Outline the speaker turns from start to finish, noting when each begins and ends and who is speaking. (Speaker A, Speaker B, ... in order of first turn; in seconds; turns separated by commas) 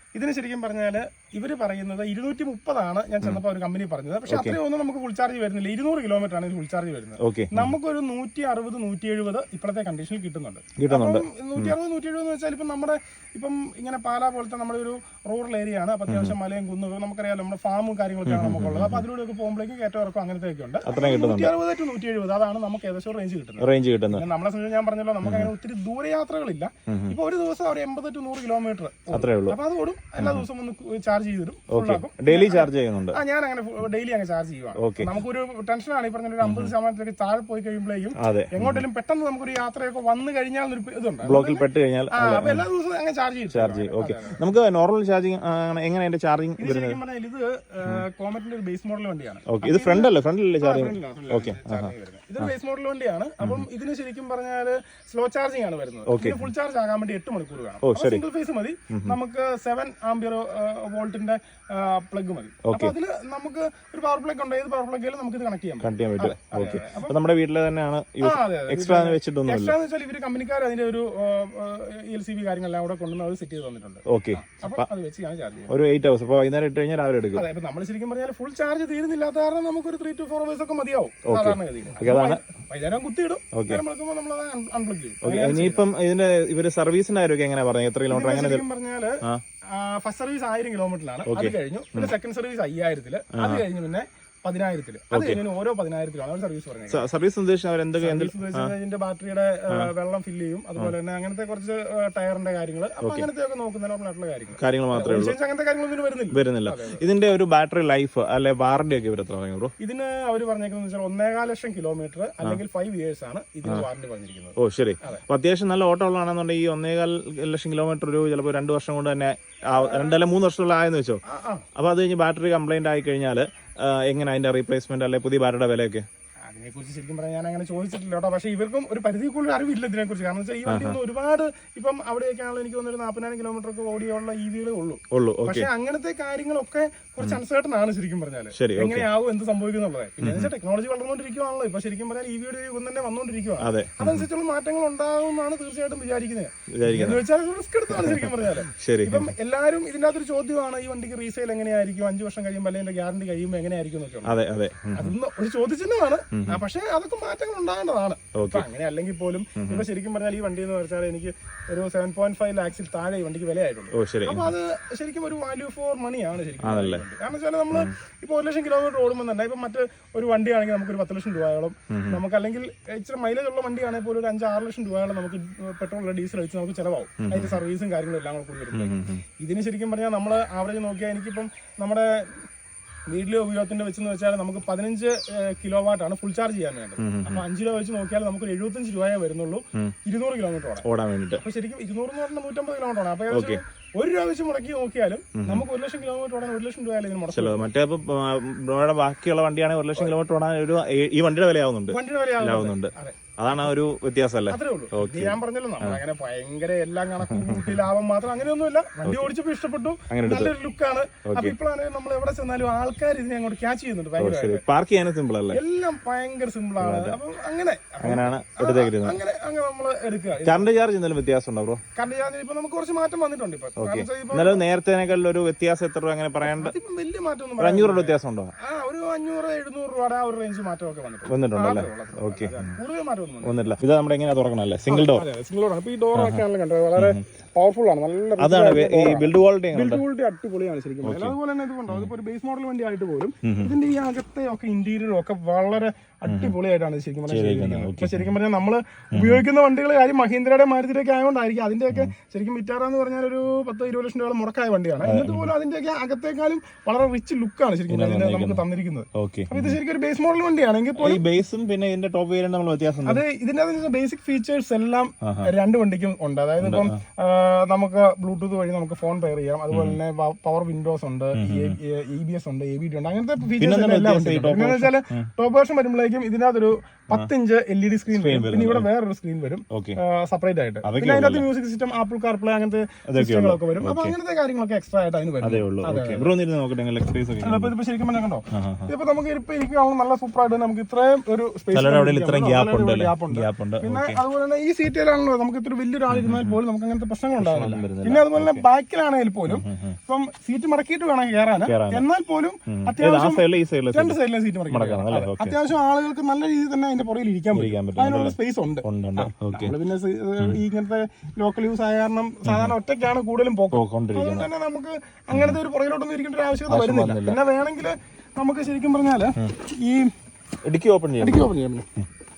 Speaker A: 0.1-44.4, Speaker B: 4.3-4.6, Speaker B: 7.2-7.7, Speaker B: 10.8-11.8, Speaker B: 16.1-16.4, Speaker B: 18.3-19.1, Speaker B: 20.9-21.6, Speaker B: 23.6-24.2, Speaker B: 25.2-25.5, Speaker B: 26.9-27.2, Speaker B: 29.1-29.6, Speaker B: 30.2-30.5, Speaker B: 31.7-33.2, Speaker B: 34.8-35.1, Speaker B: 36.4-36.7, Speaker B: 38.2-38.8, Speaker B: 41.2-42.7, Speaker B: 43.5-47.0, Speaker A: 46.6-67.2, Speaker B: 49.5-52.5, Speaker B: 53.4-53.7, Speaker B: 56.1-56.5, Speaker B: 57.8-58.2, Speaker B: 58.9-59.2, Speaker B: 62.6-62.9, Speaker B: 65.8-69.8, Speaker A: 68.2-75.7, Speaker B: 74.1-74.9, Speaker B: 75.7-77.5, Speaker A: 77.3-85.8, Speaker B: 81.3-82.4, Speaker B: 83.5-83.8, Speaker B: 85.2-88.7, Speaker A: 88.1-97.1, Speaker B: 91.3-92.1, Speaker B: 93.3-93.7, Speaker B: 95.1-95.4, Speaker B: 96.9-98.7, Speaker A: 98.0-107.0, Speaker B: 103.0-103.3, Speaker B: 104.6-105.4, Speaker B: 106.3-109.7, Speaker A: 109.8-115.2, Speaker B: 114.6-121.2, Speaker A: 119.8-120.2, Speaker A: 121.3-121.7, Speaker B: 121.8-126.1, Speaker A: 126.5-154.4, Speaker B: 130.7-131.0, Speaker B: 135.1-135.7, Speaker B: 138.6-139.1, Speaker B: 140.2-140.5, Speaker B: 143.6-144.3, Speaker B: 146.8-147.2, Speaker B: 147.9-149.3, Speaker B: 154.2-155.2, Speaker A: 154.9-182.4, Speaker B: 156.3-156.6, Speaker B: 158.4-158.7, Speaker B: 159.6-159.9, Speaker B: 163.9-164.5, Speaker B: 166.6-167.0, Speaker B: 171.9-172.2, Speaker B: 177.2-177.6, Speaker B: 178.7-179.2, Speaker A: 183.1-197.7, Speaker B: 187.0-187.4, Speaker B: 190.8-191.4, Speaker B: 193.3-193.6, Speaker B: 195.4-195.7, Speaker B: 197.3-206.0, Speaker A: 201.9-203.2, Speaker A: 204.5-214.6, Speaker B: 207.3-207.8, Speaker B: 209.0-209.3, Speaker B: 210.1-210.5, Speaker B: 211.3-211.6, Speaker B: 214.2-215.6, Speaker A: 215.5-220.8, Speaker B: 216.8-217.2, Speaker B: 218.0-219.2, Speaker B: 220.4-221.8, Speaker A: 221.9-224.6, Speaker B: 223.8-226.8, Speaker A: 226.4-233.8, Speaker B: 227.6-228.5, Speaker B: 231.3-232.8, Speaker B: 233.4-235.3, Speaker A: 234.9-261.2, Speaker B: 236.2-236.4, Speaker B: 236.9-237.2, Speaker B: 238.4-240.0, Speaker B: 241.0-241.4, Speaker B: 243.4-243.7, Speaker B: 246.3-246.6, Speaker B: 247.3-248.3, Speaker B: 249.1-249.4, Speaker B: 255.0-255.5, Speaker B: 257.9-259.8, Speaker B: 261.0-263.2, Speaker A: 263.1-286.3, Speaker B: 265.2-265.5, Speaker B: 266.6-267.0, Speaker B: 269.7-270.0, Speaker B: 271.4-271.8, Speaker B: 273.6-275.3, Speaker B: 278.1-278.9, Speaker B: 279.7-280.0, Speaker B: 280.8-281.5, Speaker B: 283.1-284.2, Speaker B: 285.4-287.7, Speaker A: 287.4-320.1, Speaker B: 288.5-288.9, Speaker B: 291.7-294.2, Speaker B: 296.1-296.6, Speaker B: 297.4-298.6, Speaker B: 299.5-300.0, Speaker B: 301.6-302.1, Speaker B: 302.7-305.6, Speaker B: 307.5-309.8, Speaker B: 312.5-312.8, Speaker B: 313.7-314.5, Speaker B: 315.3-315.6, Speaker B: 316.7-317.4, Speaker B: 320.6-321.5, Speaker A: 321.2-321.9